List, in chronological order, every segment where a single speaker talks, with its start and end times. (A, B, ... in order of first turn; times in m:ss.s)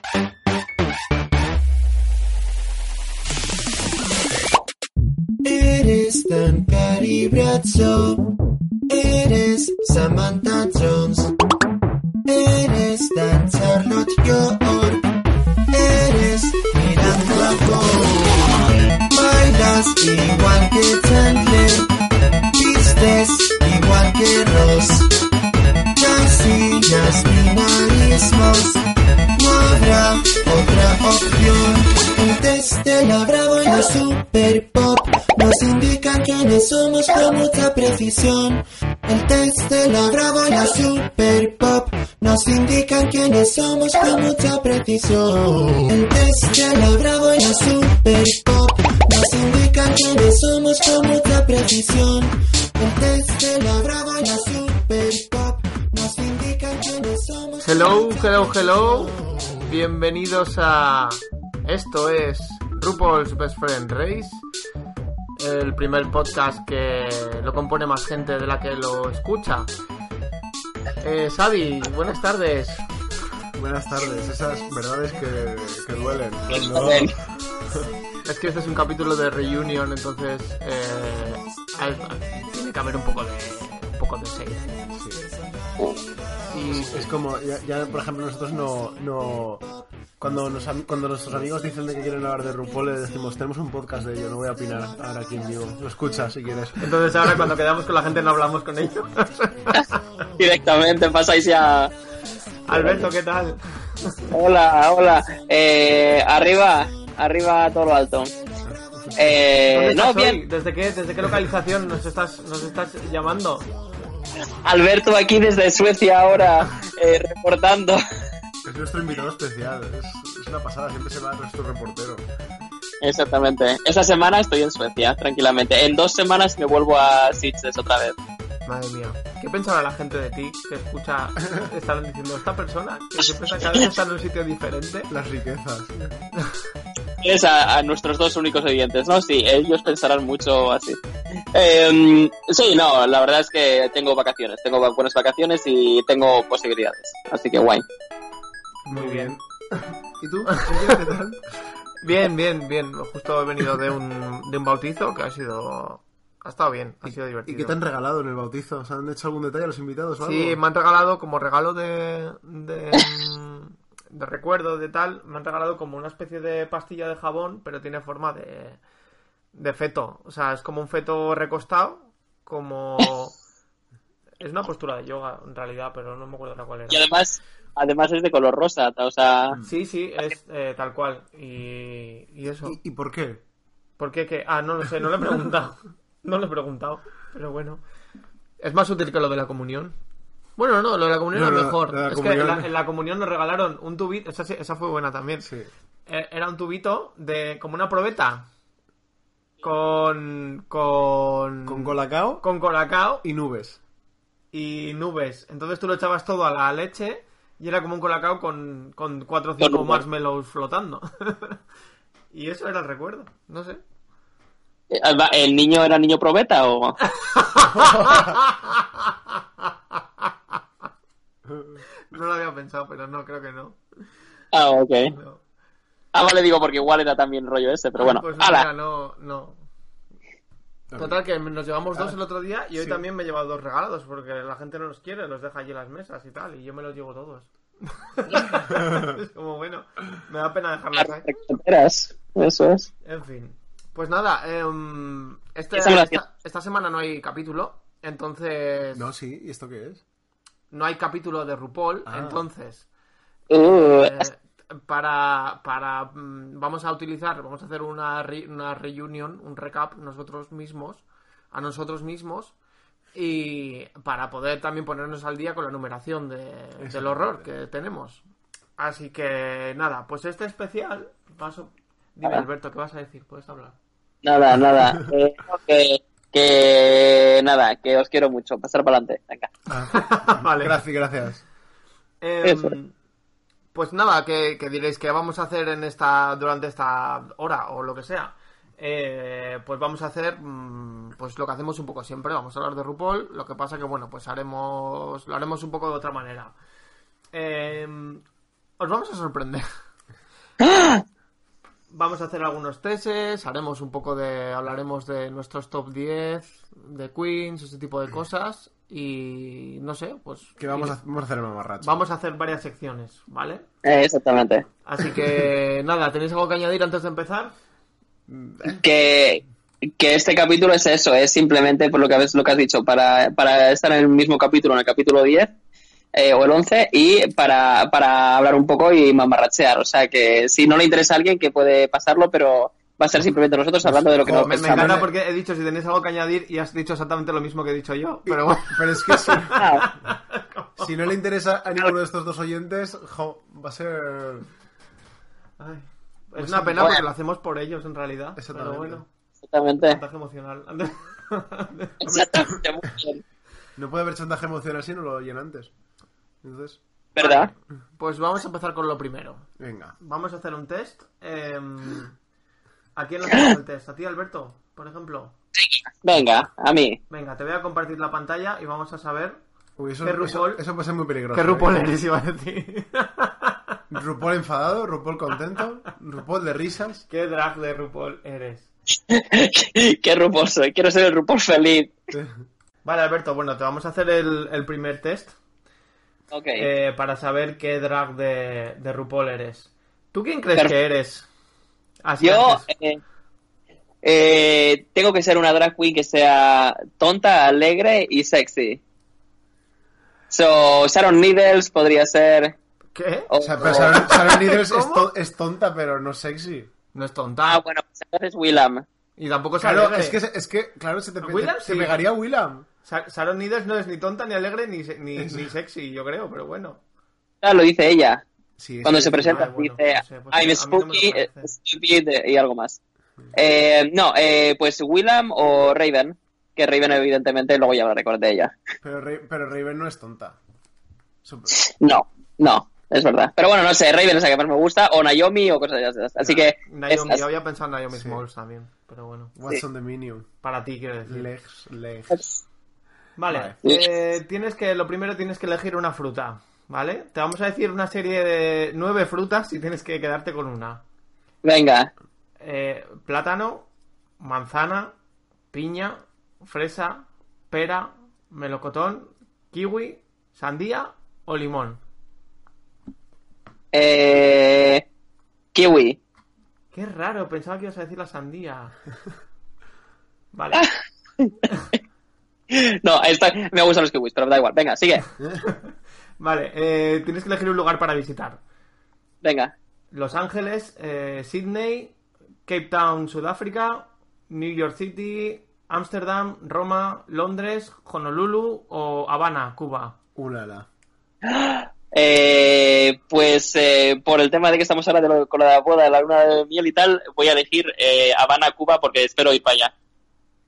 0:05.4-0:08.3 A
0:08.9-0:11.3 A
0:12.2-0:15.1 A
0:15.7-0:21.9 A
0:22.5-0:25.1 A
0:25.9-0:59.2 A
0:57.6-1:04.4 B
1:05.4-1:09.7 B
1:11.0-1:12.8 B
1:13.5-1:17.1 C
1:16.5-1:17.1 D
1:18.2-1:24.7 B
1:24.9-1:25.3 C
1:26.5-1:27.1 B
1:26.7-1:29.7 C
1:30.2-1:37.5 C
1:36.8-1:40.0 B
1:40.4-1:41.9 D
1:42.7-1:44.3 B
1:42.7-1:43.1 D
1:44.3-1:48.3 D
1:48.7-1:49.2 C
1:49.1-1:50.4 D
1:49.7-1:53.7 B
1:54.6-1:58.0 D
1:58.6-2:02.2 C
2:03.0-2:08.2 D
2:08.6-2:15.1 B
2:15.1-2:16.2 C
2:17.2-2:21.0 D
2:21.5-2:27.8 D
2:28.8-2:31.4 C
2:28.9-2:29.4 B
2:30.5-2:30.9 B
2:32.0-2:37.8 B
2:37.4-2:40.6 C
2:40.2-2:48.8 B
2:49.5-2:53.3 B
2:54.4-2:57.1 B
2:56.9-2:59.6 D
2:59.6-3:02.8 B
3:02.6-3:03.4 C
3:04.0-3:07.8 B
3:08.6-3:10.0 B
3:10.6-3:15.5 B
3:11.3-3:12.7 C
3:15.4-3:15.7 C
3:16.1-3:18.4 B
3:19.6-3:23.2 B
3:21.6-3:22.4 C
3:23.2-3:23.8 C
3:24.5-3:31.6 B
3:29.6-3:30.0 D
3:32.3-3:33.8 B
3:34.9-3:37.0 D
3:37.2-3:39.7 B
3:37.7-3:38.4 C
3:41.5-3:41.8 C
3:42.1-3:43.8 B
3:44.5-3:45.1 D
3:45.0-3:45.4 B
3:46.1-3:48.7 D
3:48.0-3:49.6 B
3:50.9-3:51.2 C
3:50.9-4:01.4 B
3:52.7-3:53.0 C
3:58.7-3:59.1 C
4:01.0-4:02.9 D
4:03.0-4:09.0 B
4:05.7-4:06.2 D
4:08.9-4:10.0 C
4:10.7-4:12.9 B
4:12.0-4:12.4 C
4:13.5-4:14.2 D
4:13.6-4:22.5 B
4:23.1-4:28.2 B
4:26.8-4:27.5 C
4:28.8-4:33.8 B
4:34.2-4:39.5 D
4:39.7-4:41.4 C
4:39.9-4:40.8 B
4:42.2-4:42.9 B
4:42.4-4:42.7 D
4:43.7-4:56.5 B
4:57.3-4:58.2 B
4:58.8-4:59.6 B
5:00.6-5:01.0 D
5:01.9-5:10.9 B
5:10.6-5:12.0 C
5:11.8-5:13.6 B
5:13.8-5:14.6 D
5:14.8-5:17.5 B
5:18.3-5:18.8 C
5:18.6-5:25.5 D
5:26.1-5:35.0 D
5:33.8-5:35.0 C
5:34.4-5:40.9 B
5:38.2-5:39.7 C
5:39.6-5:39.8 D
5:40.8-5:44.5 C
5:45.6-5:49.1 B
5:46.4-5:47.0 C
5:48.4-5:49.0 C
5:49.5-5:50.0 D
5:49.8-5:52.0 B
5:52.0-5:53.2 D
5:52.0-5:52.6 C
5:53.8-5:55.7 C
5:56.4-5:56.8 C
5:57.1-5:57.5 D
5:57.2-5:59.4 B
5:59.6-5:59.9 C
6:00.0-6:02.1 B
6:02.9-6:05.3 B
6:05.6-6:07.0 D
6:07.1-6:09.4 B
6:09.8-6:11.9 C
6:10.0-6:10.6 B
6:11.3-6:13.8 B
6:13.9-6:17.0 C
6:17.1-6:18.7 B
6:19.1-6:22.0 D
6:22.8-6:25.3 B
6:26.3-6:26.7 D
6:26.6-6:31.2 B
6:32.0-6:32.7 B
6:32.2-6:33.0 D
6:34.0-6:38.8 D
6:40.3-6:42.6 D
6:42.9-6:45.1 B
6:43.3-6:44.0 D
6:43.4-6:46.7 C
6:46.9-6:47.6 B
6:47.5-6:48.8 D
6:49.2-6:50.2 B
6:49.6-6:52.7 C
6:51.2-6:52.0 B
6:52.8-6:56.8 B
6:55.2-6:55.5 C
6:57.4-6:58.2 D
6:58.6-6:59.4 C
6:58.8-7:02.8 D
6:59.1-7:01.5 B
7:03.3-7:08.5 D
7:08.8-7:10.4 C
7:11.2-7:11.6 C
7:11.5-7:17.2 D
7:16.2-7:19.3 B
7:17.9-7:18.2 C
7:19.3-7:20.3 C
7:20.4-7:21.3 B
7:21.0-7:22.2 C
7:23.2-7:30.8 B
7:23.3-7:23.6 C
7:31.4-7:31.9 D
7:32.4-7:33.7 B
7:34.2-7:34.9 B
7:35.5-7:41.8 B
7:43.7-7:44.8 D
7:45.5-7:46.0 D
7:46.7-7:48.7 B
7:50.3-7:50.6 B
7:50.5-7:51.4 D
7:52.5-7:55.1 D
7:55.4-7:58.4 B
7:59.2-7:59.5 D
7:59.9-8:01.9 B
8:02.4-8:10.0 B
8:10.2-8:10.7 C
8:11.2-8:19.7 D